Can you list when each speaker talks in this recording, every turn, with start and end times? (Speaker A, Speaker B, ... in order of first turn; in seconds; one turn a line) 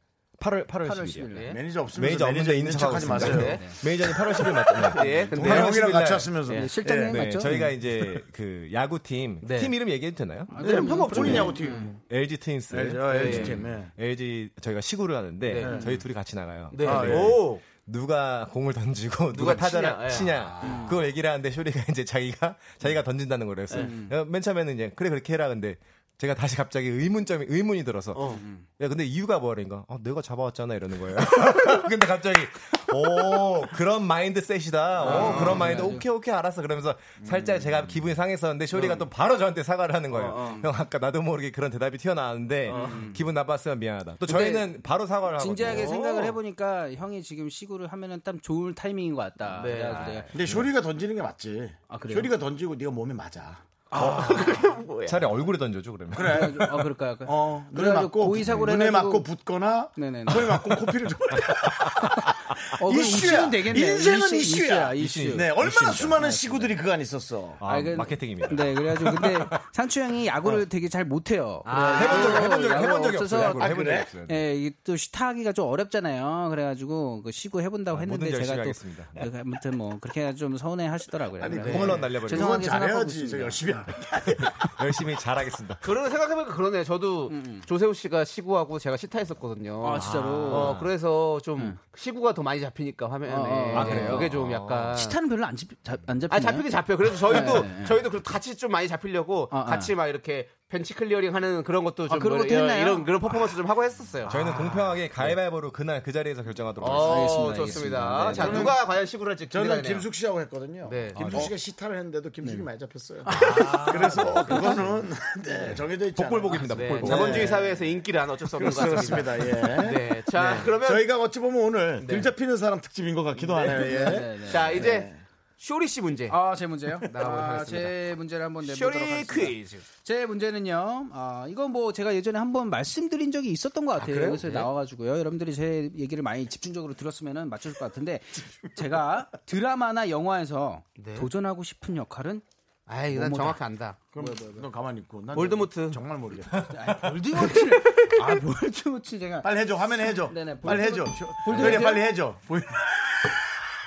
Speaker A: 0.4-1.3
Speaker B: 0.8-1.6
Speaker C: 1.3-1.6
Speaker D: 1.5-3.6
Speaker A: 1.9-6.3
Speaker C: 3.1-5.8
Speaker B: 3.4-3.8
Speaker D: 5.3-7.1
Speaker B: 6.5-7.7
Speaker A: 6.8-10.6
Speaker C: 9.4-9.7
Speaker B: 10.5-11.9
Speaker C: 10.6-11.7
Speaker D: 10.6-11.9
Speaker A: 12.1-46.4
Speaker D: 12.7-13.9
Speaker C: 13.1-13.6
Speaker C: 15.4-15.8
Speaker C: 16.7-17.6
Speaker D: 16.8-17.4
Speaker C: 19.3-20.5
Speaker D: 20.5-20.8
Speaker B: 20.6-20.9
Speaker B: 23.7-24.1
Speaker C: 28.1-28.4
Speaker B: 28.3-28.6
Speaker C: 35.0-35.8
Speaker B: 35.0-36.0
Speaker C: 40.1-40.6
Speaker C: 42.7-43.0
Speaker B: 42.7-43.2
Speaker B: 44.3-44.7
Speaker B: 45.4-50.3
Speaker C: 49.5-50.3
Speaker D: 50.3-53.6
Speaker B: 51.9-52.3
Speaker B: 53.9-54.5
Speaker C: 53.9-55.4
Speaker A: 55.0-56.9
Speaker D: 56.1-56.7
Speaker B: 56.2-59.3
Speaker D: 57.2-67.6
Speaker B: 60.0-60.6
Speaker B: 62.0-66.7
Speaker A: 65.0-66.2
Speaker A: 67.6-69.6
Speaker B: 67.6-83.9
Speaker C: 71.6-72.6
Speaker A: 71.9-74.4
Speaker D: 73.5-74.1
Speaker A: 77.9-79.3
Speaker D: 81.4-84.6
Speaker A: 81.5-82.7
Speaker C: 81.6-82.0
Speaker A: 84.4-85.8
Speaker C: 85.8-95.2
Speaker B: 87.3-87.7
Speaker B: 89.8-90.8
Speaker A: 90.0-90.8
Speaker B: 93.3-94.3
Speaker A: 93.7-95.0
Speaker B: 94.9-96.7
Speaker C: 96.3-104.3
Speaker B: 97.2-98.0
Speaker B: 99.5-99.9
Speaker B: 102.1-103.4
Speaker B: 104.3-104.9
Speaker A: 104.3-107.8
Speaker C: 106.8-110.1
Speaker B: 106.9-108.7
Speaker D: 108.4-108.8
Speaker D: 109.5-117.7
Speaker C: 110.8-111.5
Speaker B: 111.2-111.5
Speaker B: 113.2-114.8
Speaker C: 113.5-113.8
Speaker A: 113.5-114.5
Speaker A: 116.1-117.6
Speaker C: 116.7-121.1
Speaker D: 118.5-125.2
Speaker C: 122.0-122.3
Speaker B: 123.6-124.9
Speaker C: 123.7-126.4
Speaker B: 126.3-142.4
Speaker C: 127.0-127.9
Speaker C: 128.6-129.8
Speaker C: 134.0-134.7
Speaker C: 141.0-141.3
Speaker C: 142.9-144.0
Speaker B: 143.1-143.6
Speaker D: 144.1-146.7
Speaker B: 144.2-144.6
Speaker C: 145.3-146.0
Speaker B: 146.7-152.1
Speaker D: 149.4-153.3